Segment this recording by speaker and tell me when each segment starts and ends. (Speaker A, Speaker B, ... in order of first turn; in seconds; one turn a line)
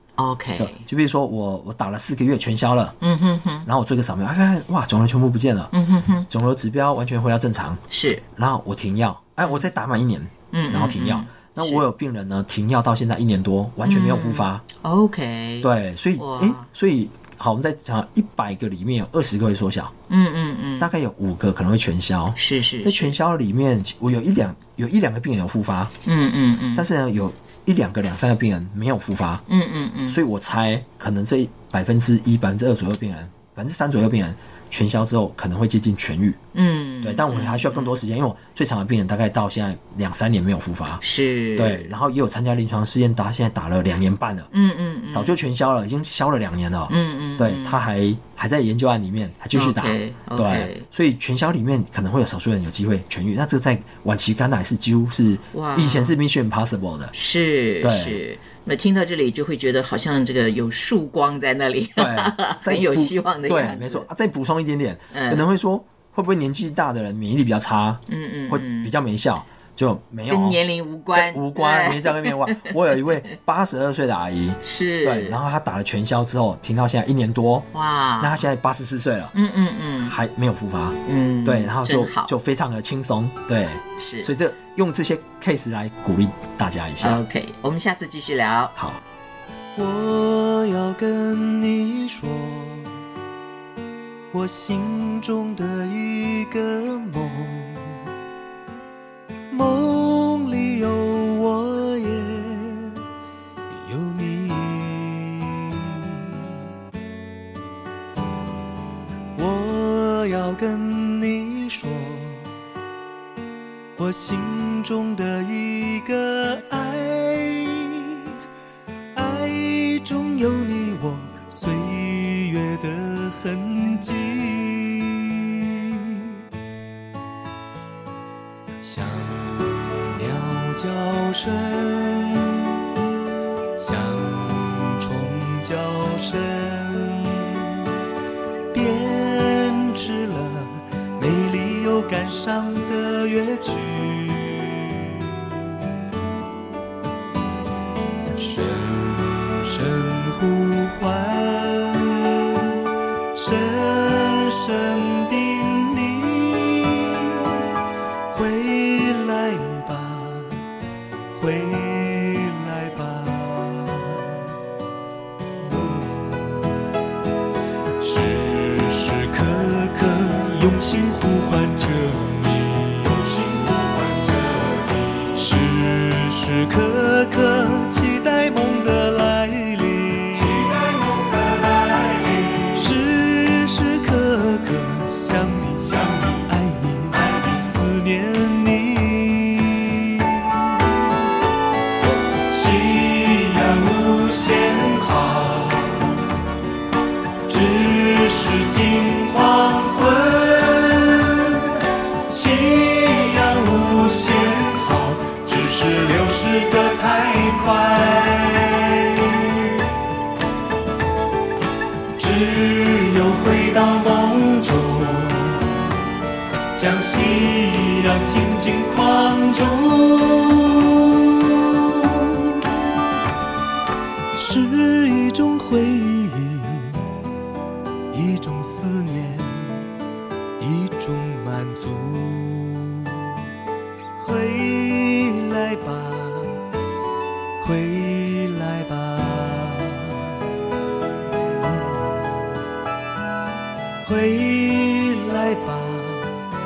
Speaker A: 0.2-0.8
Speaker B: 0.6-2.9
Speaker A: 3.0-3.7
Speaker B: 3.6-5.7
Speaker A: 5.7-6.3
Speaker B: 6.3-7.8
Speaker A: 7.9-8.2
Speaker B: 8.3-14.6
Speaker A: 10.5-11.8
Speaker A: 13.8-16.7
Speaker B: 15.6-19.9
Speaker A: 20.1-20.9
Speaker B: 20.8-25.9
Speaker A: 22.4-23.1
Speaker A: 26.0-26.9
Speaker B: 26.8-29.4
Speaker A: 29.5-30.2
Speaker B: 30.1-36.4
Speaker A: 36.5-38.0
Speaker B: 37.0-41.0
Speaker A: 41.0-41.9
Speaker B: 41.5-44.5
Speaker A: 44.5-45.4
Speaker B: 45.1-57.1
Speaker A: 46.9-47.8
Speaker A: 49.5-50.8
Speaker A: 55.5-56.1
Speaker A: 57.1-64.0
Speaker B: 57.8-58.2
Speaker B: 62.0-77.7
Speaker A: 65.1-65.4
Speaker A: 68.1-68.9
Speaker A: 70.3-72.8
Speaker A: 74.6-75.4
Speaker A: 77.7-78.4
Speaker B: 78.2-79.3
Speaker A: 79.3-80.2
Speaker B: 80.0-87.2
Speaker A: 81.0-82.3
Speaker A: 84.0-84.3
Speaker A: 87.0-88.7
Speaker B: 88.8-89.0
Speaker C: 89.8-93.0
Speaker C: 94.3-98.1
Speaker C: 99.5-103.0
Speaker C: 103.7-106.6
Speaker C: 109.3-112.5
Speaker C: 114.0-118.4
Speaker C: 119.1-126.4
Speaker C: 128.8-132.8
Speaker C: 133.8-138.0
Speaker C: 138.7-145.5
Speaker C: 148.3-157.7
Speaker C: 158.3-160.7
Speaker C: 161.3-164.5
Speaker C: 165.6-166.9
Speaker C: 168.0-191.0
Speaker C: 192.5-196.1
Speaker C: 197.5-210.0
Speaker C: 212.1-215.8
Speaker C: 216.7-222.6
Speaker C: 224.3-227.1
Speaker C: 228.1-229.9
Speaker C: 230.6-233.4
Speaker C: 234.2-236.7
Speaker C: 237.6-240.5
Speaker C: 241.4-242.3
Speaker C: 244.0-246.4